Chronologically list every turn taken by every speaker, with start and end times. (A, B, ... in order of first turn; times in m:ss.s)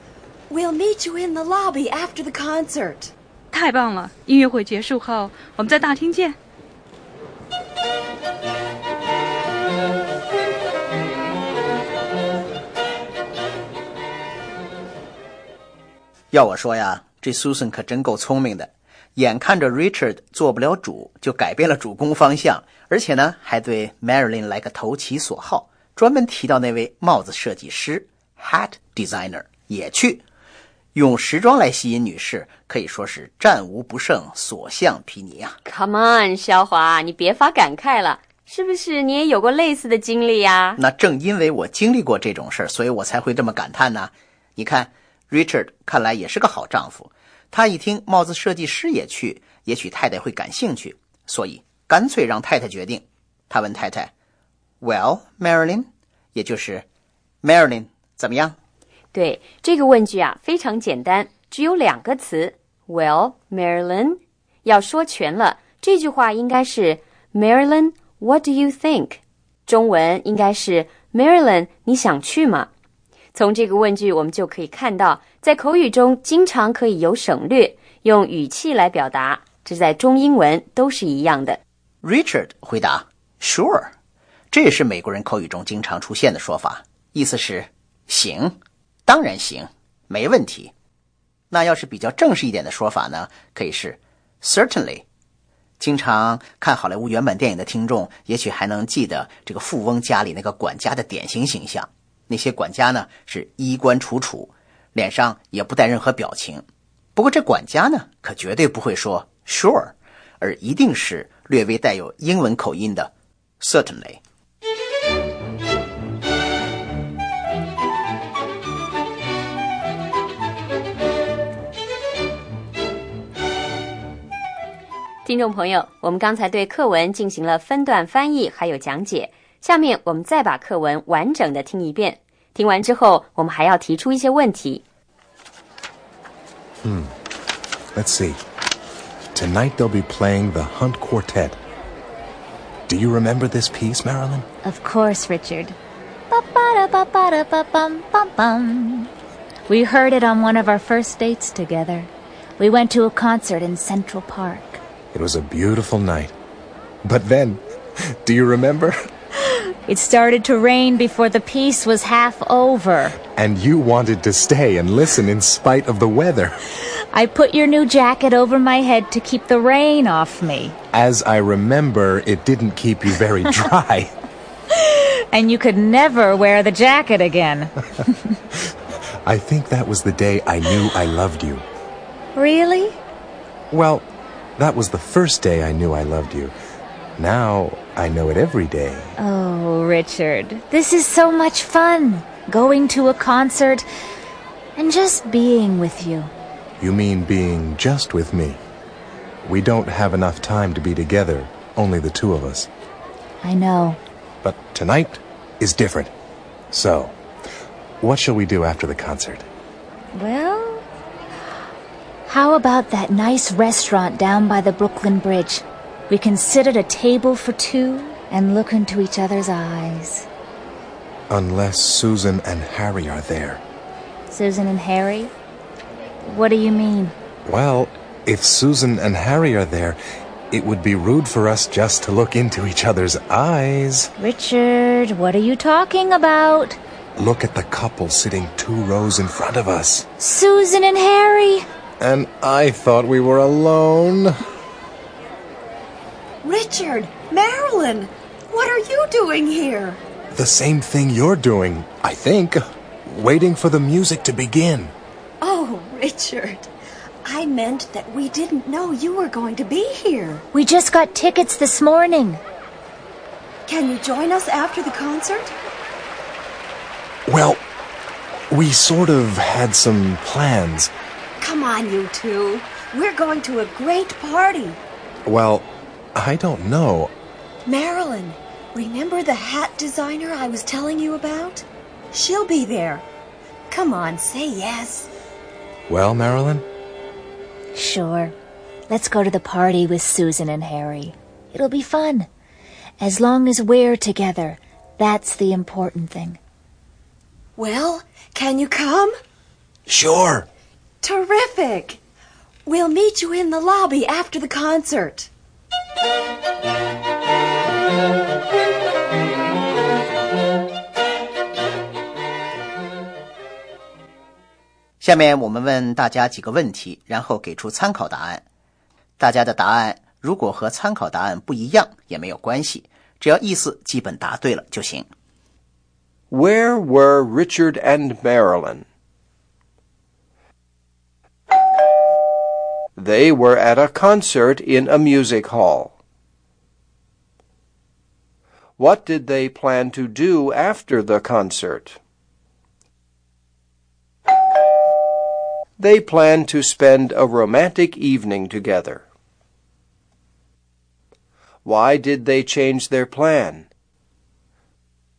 0:00.5-0:03.1 A
0:03.5-0:06.4 B
0:16.3-0:30.2 C
0:31.0-0:35.6 C
0:35.6-0:40.8 D
0:40.8-0:54.1 C
0:54.8-0:56.8 C
0:57.4-0:58.6 C
0:59.1-1:12.7 D
1:13.3-1:21.6 D
1:22.0-1:23.9 C
1:24.5-1:30.7 C
1:31.5-1:35.0 C
1:35.8-1:54.2 C
2:05.2-2:14.8 D
2:16.8-2:17.1 E
2:17.9-2:18.4 E
2:19.3-2:21.6 E
2:22.9-2:24.5 E
2:24.6-2:25.8 F
2:26.3-2:29.1 F
2:29.7-2:34.8 F
2:35.1-2:36.3 E
2:37.0-2:37.6 E
2:38.2-2:39.0 E
2:39.9-2:43.2 F
2:43.2-2:46.6 E
2:47.1-2:50.8 F
2:50.9-2:54.1 E
2:54.8-2:57.7 F
2:59.2-3:01.6 E
3:02.4-3:03.0 F
3:03.7-3:04.0 E
3:04.6-3:06.6 E
3:07.2-3:09.2 E
3:09.2-3:13.9 F
3:14.8-3:16.3 F
3:16.8-3:18.6 E
3:19.4-3:22.7 E
3:23.4-3:24.0 F
3:24.4-3:26.1 E
3:26.7-3:27.2 E
3:28.0-3:29.5 E
3:30.1-3:30.8 F
3:32.3-3:40.3 F
3:41.3-3:43.6 E
3:44.3-3:45.3 F
3:46.2-3:47.2 F
3:47.4-3:50.0 E
3:50.5-3:54.1 E
3:54.2-3:56.8 F
3:57.2-4:00.1 E
4:00.2-4:01.6 F
4:02.0-4:04.3 E
4:06.4-4:10.0 A
4:10.3-4:14.9 E
4:15.4-4:16.7 A
4:17.2-4:20.4 A
4:20.5-4:22.4 F
4:23.7-4:25.5 A
4:27.3-4:27.6 E
4:28.5-4:30.9 E
4:31.4-4:34.8 A
4:35.3-4:37.1 E
4:37.7-4:43.0 A
4:43.7-4:45.1 A
4:45.9-4:46.6 E
4:47.7-4:48.3 F
4:48.9-4:52.3 F
4:53.0-4:56.4 F
4:57.6-4:59.2 A
4:59.9-5:00.5 E
5:01.0-5:02.0 A
5:02.7-5:05.3 A
5:15.0-5:18.4 C
5:19.2-5:25.1 C
5:26.3-5:28.8 G
5:33.0-5:35.9 G
5:38.8-5:42.0 G
5:45.8-5:49.0 G
5:51.6-5:53.7 G